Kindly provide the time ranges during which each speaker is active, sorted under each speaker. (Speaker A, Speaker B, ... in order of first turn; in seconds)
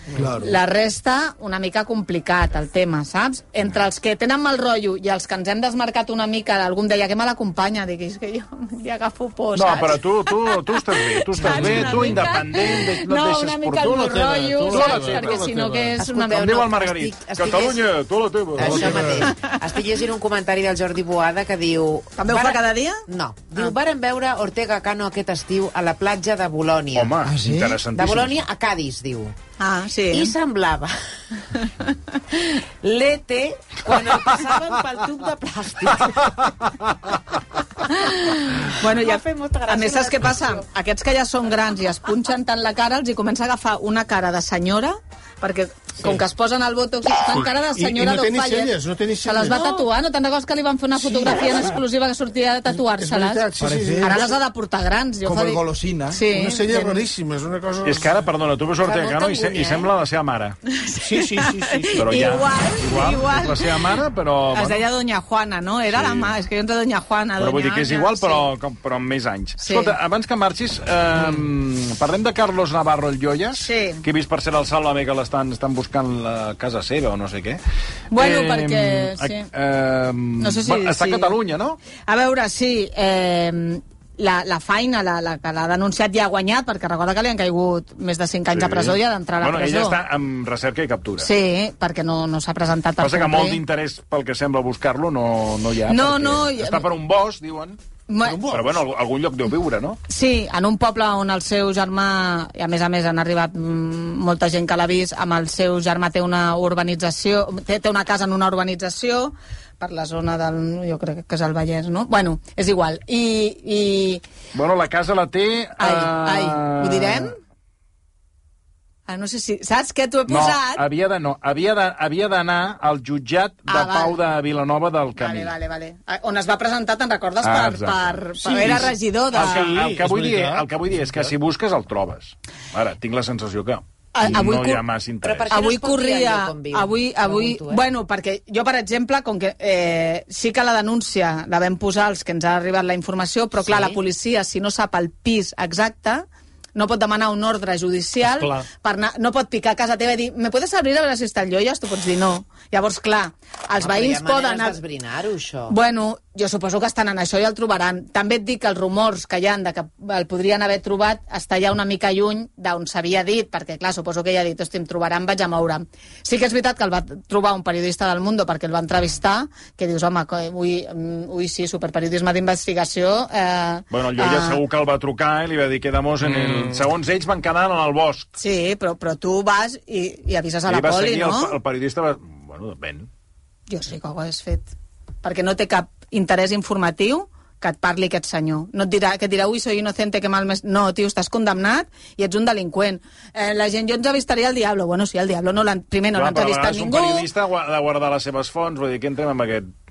Speaker A: 0.2-0.6, 27.2-27.8, 53.6-54.2, 55.2-56.2
Speaker B: 0.4-16.6, 22.2-23.0, 29.6-30.4, 31.5-32.0, 37.9-53.5, 54.0-57.0, 60.7-63.8, 64.5-68.5, 69.6-70.0, 73.6-74.0, 78.1-79.5, 80.4-81.3, 82.1-90.0, 91.2-93.6, 95.9-96.8, 98.1-98.4, 100.1-114.2, 115.8-117.4, 119.1-120.8, 123.7-124.2, 125.2-129.7, 134.1-134.8, 135.5-154.8, 155.7-174.6, 178.4-181.6, 183.7-184.7, 185.2-197.3
Speaker C: 9.6-14.1, 14.7-15.5, 16.3-19.2, 26.9-28.4, 57.8-60.6, 62.0-64.8, 65.9-66.3, 67.4-77.6, 78.2-81.8, 88.5-91.3, 93.0-97.8, 98.5-100.0, 114.5-117.3, 120.3-125.5, 127.4-135.6, 173.9-178.3, 180.7-183.1, 196.1-199.7
Speaker D: 11.4-12.3, 13.8-16.0, 47.3-49.8, 52.7-54.4, 56.3-58.1, 61.0-62.3, 98.2-98.8, 128.5-131.3, 148.2-148.7, 176.3-176.8
Speaker E: 16.0-17.8, 18.6-27.2, 27.9-29.4, 30.1-30.9, 32.3-36.5, 38.8-40.6, 58.8-59.9, 135.2-137.8, 143.6-144.0, 153.8-155.8